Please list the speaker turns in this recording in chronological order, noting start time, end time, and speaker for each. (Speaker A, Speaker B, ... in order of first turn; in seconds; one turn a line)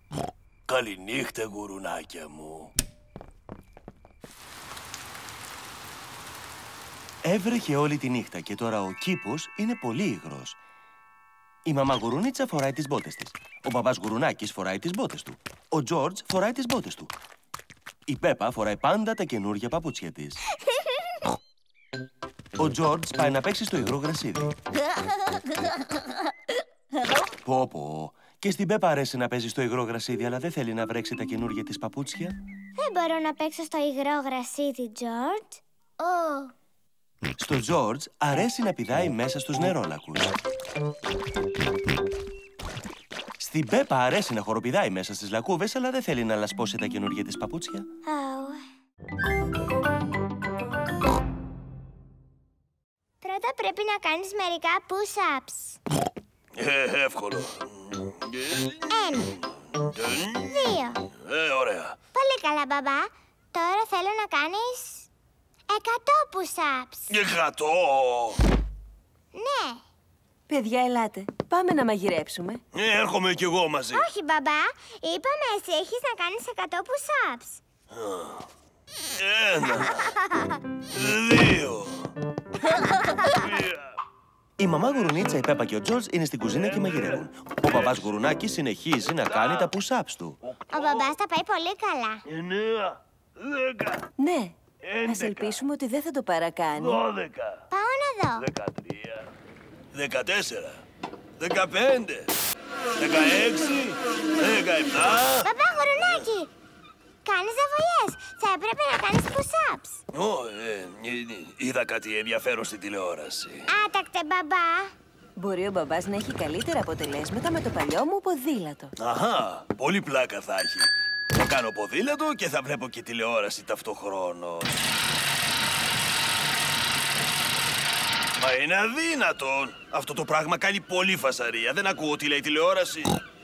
Speaker A: 0.7-2.7
Speaker B: 7.2-10.6
Speaker B: 11.7-17.1
Speaker B: 18.1-20.4
Speaker B: 22.6-24.6
Speaker B: 27.4-32.4
Speaker C: 32.8-36.5
Speaker B: 37.4-40.4
Speaker B: 43.4-47.9
Speaker C: 48.1-48.6
Speaker C: 53.2-55.8
Speaker A: 56.5-58.9
Speaker C: 58.9-59.4
Speaker A: 60.0-60.5
Speaker C: 60.4-61.0
Speaker A: 61.2-62.0
Speaker C: 62.1-65.1
Speaker C: 65.7-67.1
Speaker A: 67.1-68.4
Speaker C: 69.3-69.8
Speaker D: 70.5-72.6
Speaker A: 72.7-74.1
Speaker C: 73.9-77.6
Speaker A: 78.0-78.4
Speaker A: 79.2-80.2
Speaker A: 80.9-82.1
Speaker A: 83.2-83.8
Speaker B: 84.6-90.4
Speaker A: 89.3-89.7
Speaker A: 90.6-91.0
Speaker C: 90.7-92.2
Speaker A: 92.3-94.1
Speaker D: 94.2-97.0
Speaker A: 94.8-95.6
Speaker A: 96.8-97.6
Speaker C: 97.7-98.5
Speaker A: 98.4-99.3
Speaker A: 99.9-100.8
Speaker A: 101.4-102.3
Speaker A: 103.0-105.5
Speaker C: 105.4-106.5
Speaker C: 107.2-110.0
Speaker A: 110.1-113.7
Speaker C: 113.7-114.9
Speaker D: 115.4-118.9
Speaker A: 119.0-124.9
Speaker A: 128.4-133.2